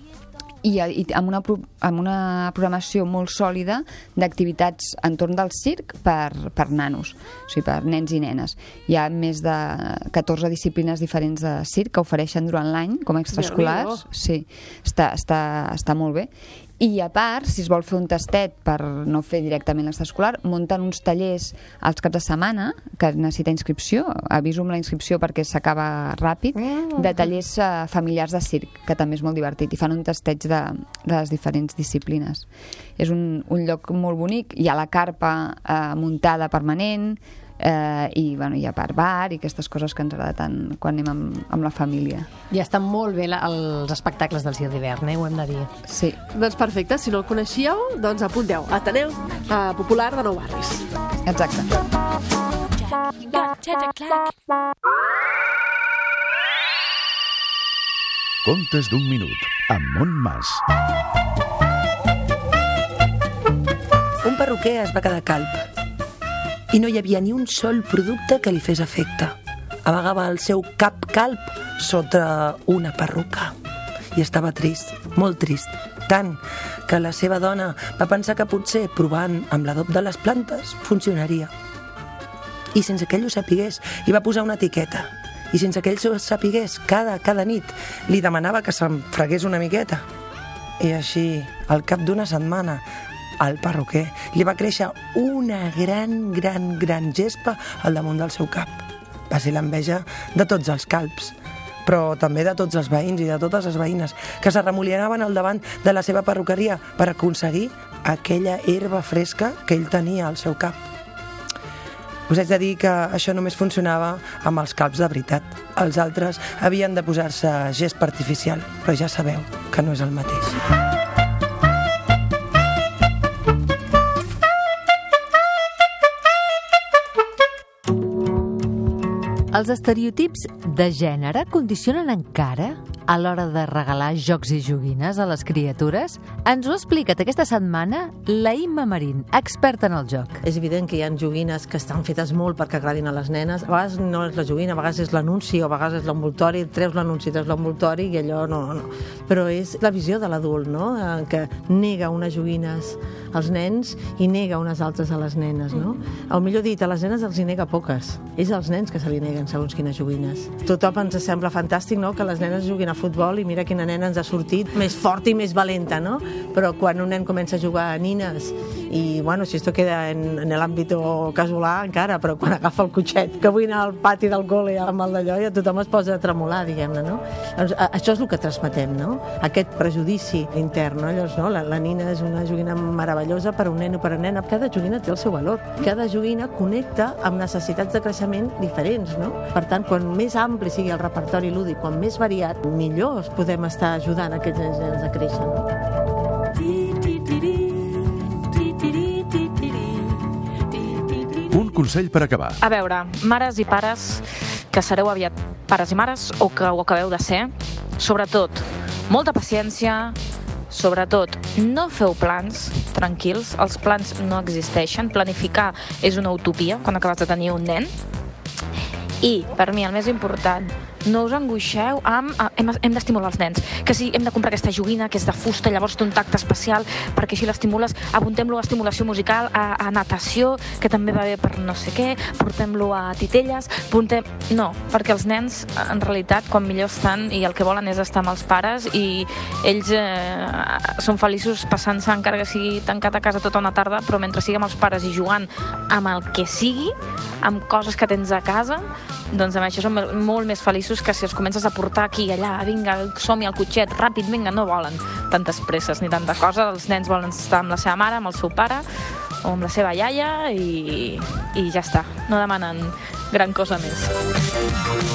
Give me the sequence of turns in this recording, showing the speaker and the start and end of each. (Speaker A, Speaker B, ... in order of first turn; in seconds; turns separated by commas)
Speaker A: 0.6-42.3, Speaker B: 13.3-14.0, Speaker C: 42.5-45.7, Speaker A: 45.9-46.2, Speaker B: 46.3-50.9, Speaker A: 51.3-51.8, Speaker D: 58.4-60.6, Speaker E: 64.2-65.6, Speaker E: 66.7-73.5, Speaker E: 74.1-81.5, Speaker E: 82.7-90.0, Speaker E: 90.8-92.8, Speaker E: 93.4-110.8, Speaker E: 112.3-120.6, Speaker F: 129.5-140.4, Speaker G: 140.4-195.7, Speaker D: 201.5-202.6, Speaker H: 202.6-210.2, Speaker H: 210.7-217.9, Speaker H: 219.2-258.9, Speaker H: 259.4-264.1